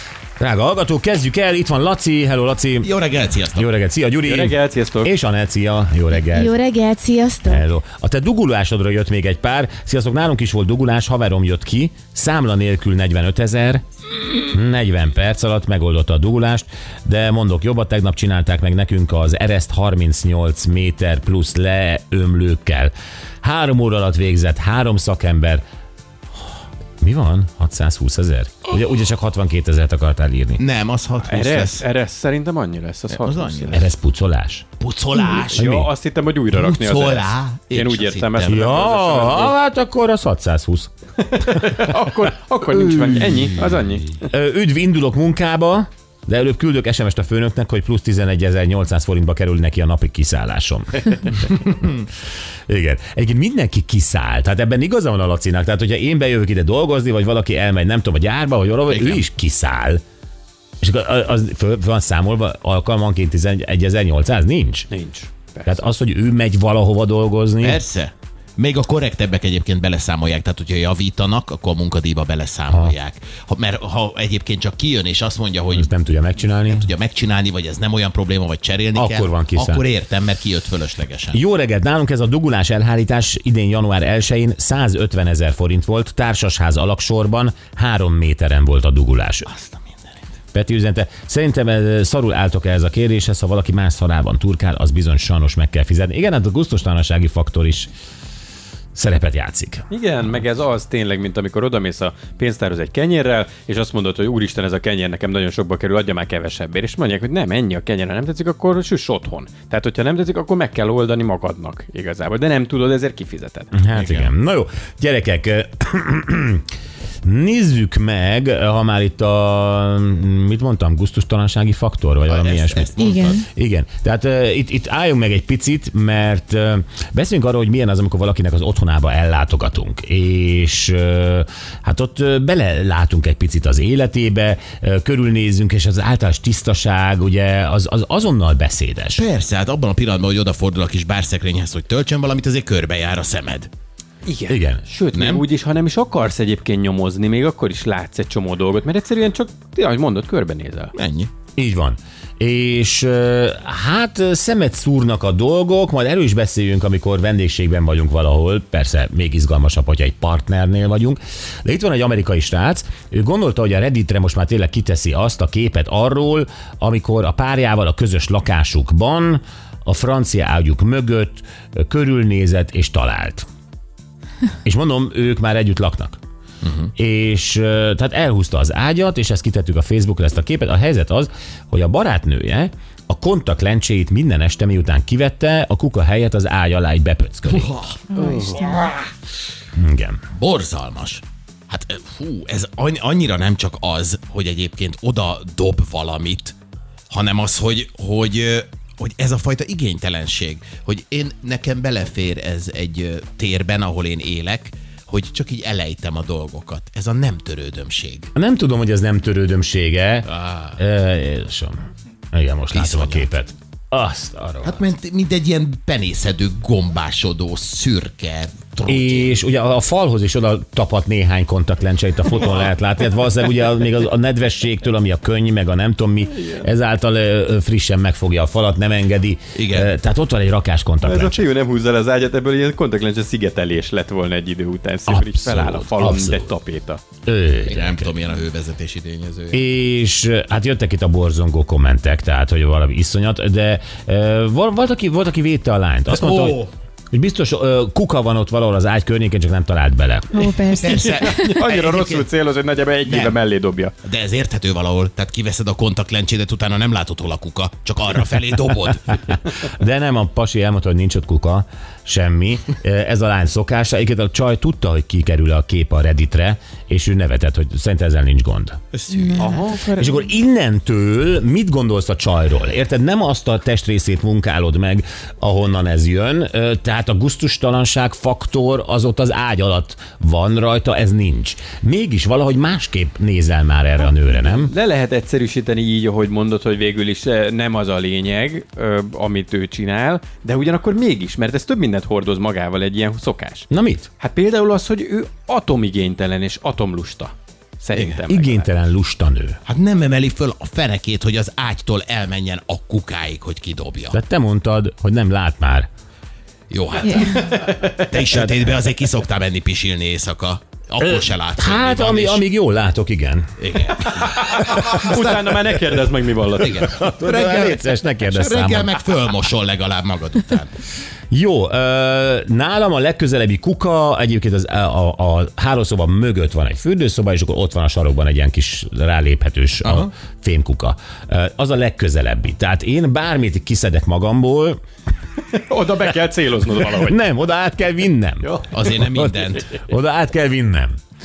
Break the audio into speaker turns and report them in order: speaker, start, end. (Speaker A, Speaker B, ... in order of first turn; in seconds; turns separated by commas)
Speaker A: 0.4-2.9, Speaker B: 2.8-3.7, Speaker A: 3.5-6.5, Speaker C: 4.2-5.1, Speaker D: 6.2-7.6, Speaker A: 7.5-13.8, Speaker A: 14.5-25.6, Speaker A: 27.0-30.6, Speaker B: 30.6-31.8, Speaker C: 31.2-33.9, Speaker B: 33.1-33.9, Speaker A: 33.7-34.7, Speaker B: 34.8-35.7, Speaker C: 35.5-39.5, Speaker A: 35.5-35.9, Speaker B: 36.5-38.8, Speaker A: 38.5-40.9, Speaker C: 41.3-44.1, Speaker A: 42.7-43.1, Speaker A: 44.2-52.0, Speaker A: 52.7-60.0, Speaker B: 58.9-59.2, Speaker A: 60.8-64.9, Speaker C: 64.9-65.8, Speaker A: 65.7-67.8, Speaker B: 67.6-75.9, Speaker A: 72.7-73.0, Speaker A: 75.7-76.9, Speaker B: 76.5-81.4, Speaker A: 79.0-79.8, Speaker A: 81.3-89.5, Speaker B: 89.5-90.2, Speaker A: 90.5-97.9, Speaker A: 99.0-99.8, Speaker C: 99.9-113.7, Speaker A: 113.7-116.7, Speaker B: 113.9-114.3, Speaker A: 117.2-139.2, Speaker B: 122.2-123.4, Speaker D: 123.0-123.5, Speaker B: 139.2-143.7, Speaker C: 144.2-150.9, Speaker A: 144.5-144.8, Speaker B: 145.1-145.4, Speaker B: 150.9-151.3, Speaker A: 151.6-173.4, Speaker A: 174.7-176.2, Speaker A: 176.9-187.8, Speaker B: 187.6-188.0, Speaker D: 188.1-188.8, Speaker C: 188.2-188.7, Speaker A: 189.8-190.2, Speaker B: 190.4-196.6, Speaker B: 197.1-208.3, Speaker A: 208.3-211.8, Speaker B: 210.3-210.8, Speaker A: 212.3-214.8, Speaker B: 212.7-213.3, Speaker B: 214.6-219.4, Speaker A: 218.9-231.5, Speaker B: 222.3-222.7, Speaker B: 229.6-229.9, Speaker C: 231.0-237.0, Speaker A: 235.1-236.5, Speaker B: 235.5-235.9, Speaker A: 237.3-238.1, Speaker B: 237.7-239.6, Speaker A: 239.5-250.5, Speaker B: 246.1-246.7, Speaker D: 250.3-251.6, Speaker B: 250.7-252.3, Speaker C: 251.0-253.9, Speaker B: 253.1-253.4, Speaker B: 254.0-259.3, Speaker A: 259.6-268.8, Speaker B: 268.9-269.6, Speaker D: 269.1-270.2, Speaker C: 269.4-269.9, Speaker A: 269.9-284.7, Speaker C: 284.5-293.7, Speaker A: 293.7-294.1, Speaker C: 294.2-298.7, Speaker A: 298.3-299.6, Speaker B: 299.7-304.2, Speaker A: 304.1-305.9, Speaker B: 306.7-312.4, Speaker D: 307.0-307.4, Speaker C: 307.6-307.9, Speaker A: 308.3-308.6, Speaker A: 311.0-313.5, Speaker B: 313.6-315.8, Speaker C: 314.6-316.9, Speaker B: 316.5-320.7, Speaker A: 316.8-318.9, Speaker A: 321.3-334.8, Speaker B: 329.8-330.1, Speaker C: 335.5-337.2, Speaker A: 336.9-341.0, Speaker C: 338.4-338.7, Speaker B: 338.7-339.7